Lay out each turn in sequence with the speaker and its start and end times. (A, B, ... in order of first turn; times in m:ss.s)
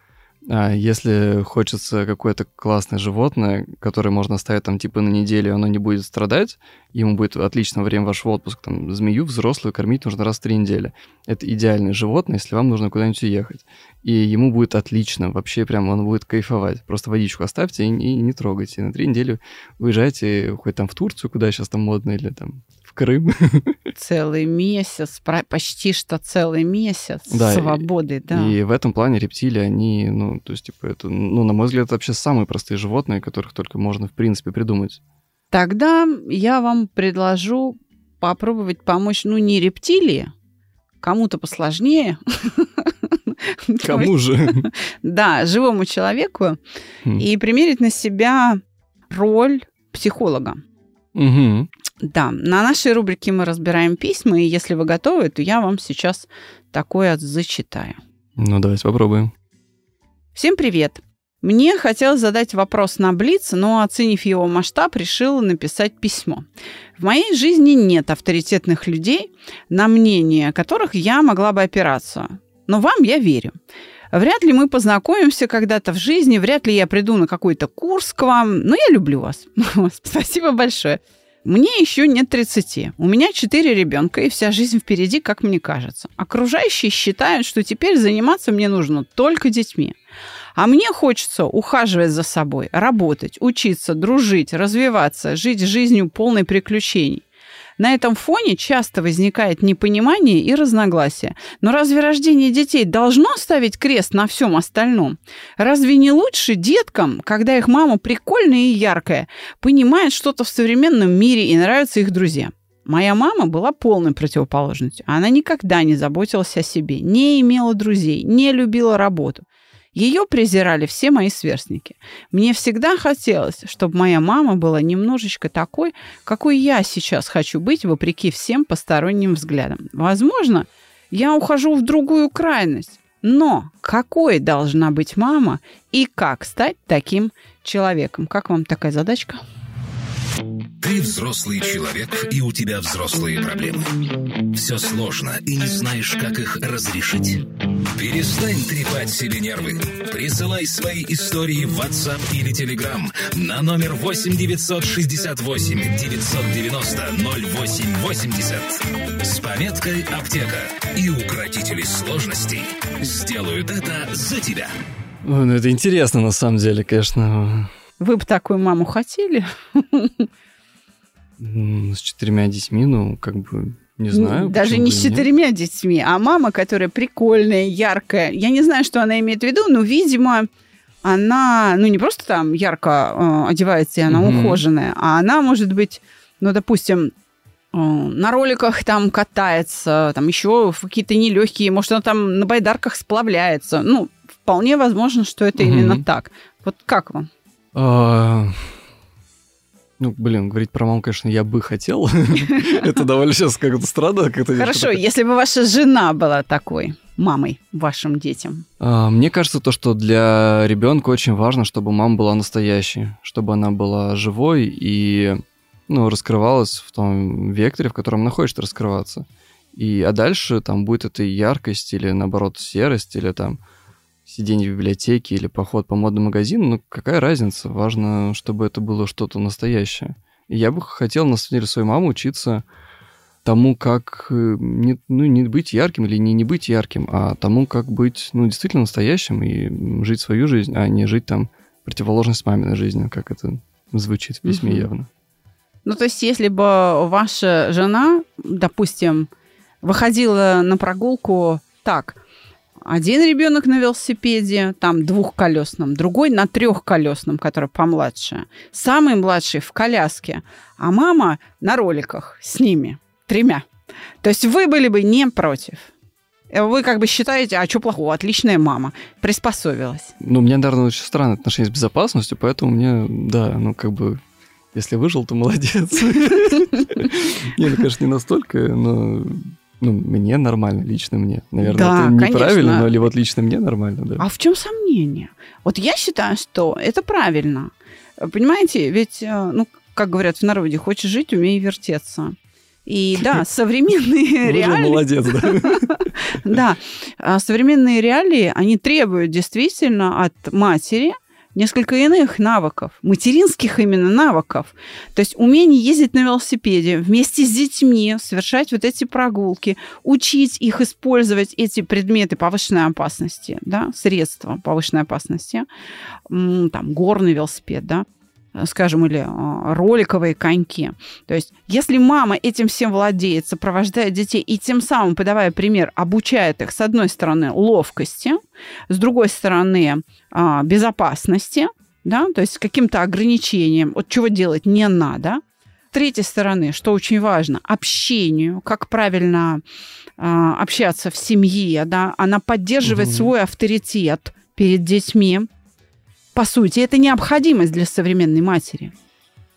0:00.4-0:23.8 A
0:23.9-0:28.5 B
0:27.3-0:35.0 A
0:35.5-0:40.3 B
0:41.0-0:46.6 B
0:43.8-0:44.7 A
0:47.2-0:50.6 B
0:51.1-0:51.7 A
0:52.0-0:58.0 B
0:58.4-0:59.3 A
1:00.3-1:06.4 B
1:07.0-1:13.5 B
1:14.1-1:30.0 B
1:30.5-1:37.2 B
1:37.8-2:19.4 B
2:20.8-2:23.9 C
2:24.5-2:44.7 C
2:45.2-2:47.7 A
2:48.0-2:50.3 B
2:51.4-2:55.3 A
2:54.1-3:00.5 B
3:01.0-3:07.1 B
3:04.1-3:04.6 A
3:07.7-3:17.3 B
3:15.6-3:16.0 A
3:17.7-3:18.7 A
3:20.0-3:25.0 A
3:22.5-3:22.8 B
3:24.5-3:28.6 B
3:28.8-3:43.6 A
3:44.2-3:52.6 A
3:53.4-4:05.1 A
4:04.4-4:04.9 B
4:05.8-4:09.3 B
4:09.8-4:12.2 B
4:12.8-4:23.6 B
4:24.2-4:25.9 B
4:26.5-4:30.1 B
4:30.2-4:34.2 A
4:34.7-4:44.2 A
4:41.6-4:42.9 B
4:44.2-5:15.6 B
4:53.2-4:53.4 A
4:54.4-4:56.6 A
5:16.3-5:28.4 B
5:28.9-5:35.4 B
5:35.9-5:39.6 B
5:40.2-5:45.5 B
5:42.8-5:43.3 A
5:46.3-5:48.9 B